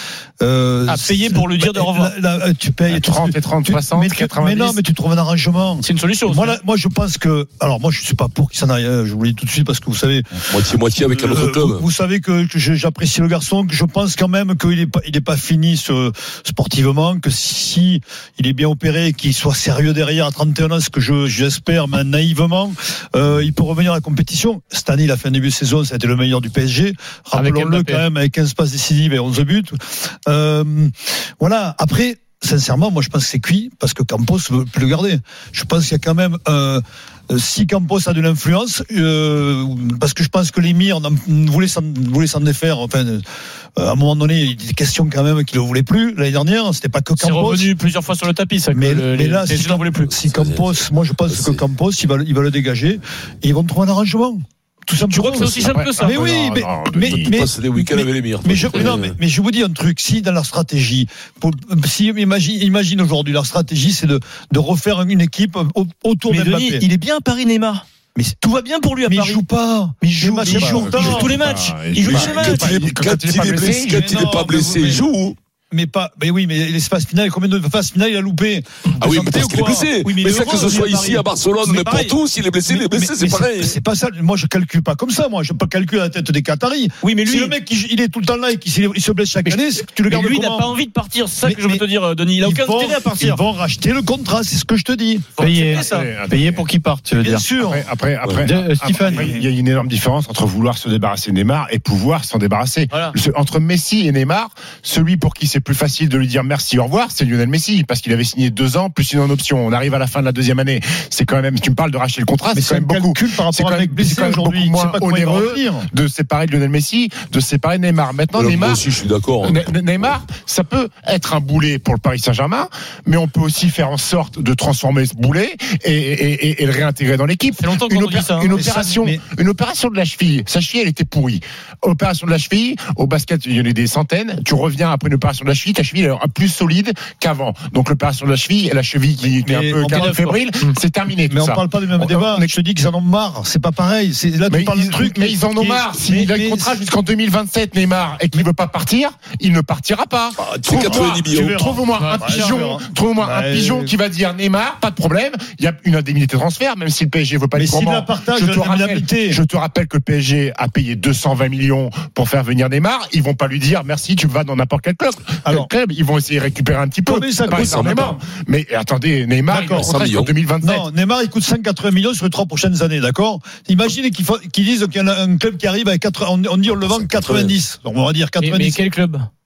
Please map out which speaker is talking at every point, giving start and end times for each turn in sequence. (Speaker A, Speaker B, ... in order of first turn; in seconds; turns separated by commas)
Speaker A: 0.4-43.2, Speaker B: 0.9-2.1, Speaker C: 2.9-4.8, Speaker B: 5.8-6.5, Speaker D: 10.5-11.8, Speaker B: 27.3-28.1, Speaker A: 43.8-47.7, Speaker B: 47.2-50.1, Speaker A: 48.7-66.8, Speaker D: 50.1-51.6, Speaker B: 55.1-56.3, Speaker C: 55.7-57.4, Speaker D: 57.0-59.1, Speaker B: 66.3-67.8, Speaker B: 68.4-69.4, Speaker A: 69.0-71.3, Speaker B: 70.0-72.9, Speaker C: 70.5-74.3, Speaker D: 72.0-75.3, Speaker A: 73.8-75.1, Speaker A: 75.7-80.8, Speaker D: 79.0-83.7, Speaker B: 80.2-82.2, Speaker A: 82.7-90.7, Speaker B: 87.0-87.5, Speaker B: 89.4-93.4, Speaker A: 91.4-91.8, Speaker A: 92.4-95.3, Speaker B: 95.4-96.1, Speaker E: 95.4-97.5, Speaker C: 95.7-96.6, Speaker A: 97.2-97.9, Speaker C: 97.6-118.8, Speaker E: 98.4-99.3, Speaker A: 99.1-99.4, Speaker B: 102.9-103.2, Speaker A: 112.5-115.9, Speaker D: 118.3-119.7, Speaker C: 119.4-142.5, Speaker B: 127.6-128.6, Speaker A: 128.5-129.2, Speaker A: 139.4-140.2, Speaker B: 139.9-140.8, Speaker A: 141.2-146.8, Speaker C: 144.5-170.9, Speaker A: 150.4-153.9, Speaker D: 150.6-151.6, Speaker B: 151.9-152.5, Speaker A: 157.5-159.4, Speaker A: 167.0-168.2, Speaker D: 167.5-168.1, Speaker A: 169.5-169.9, Speaker D: 169.6-170.3, Speaker A: 170.6-178.8, Speaker D: 176.7-177.6, Speaker B: 178.4-179.3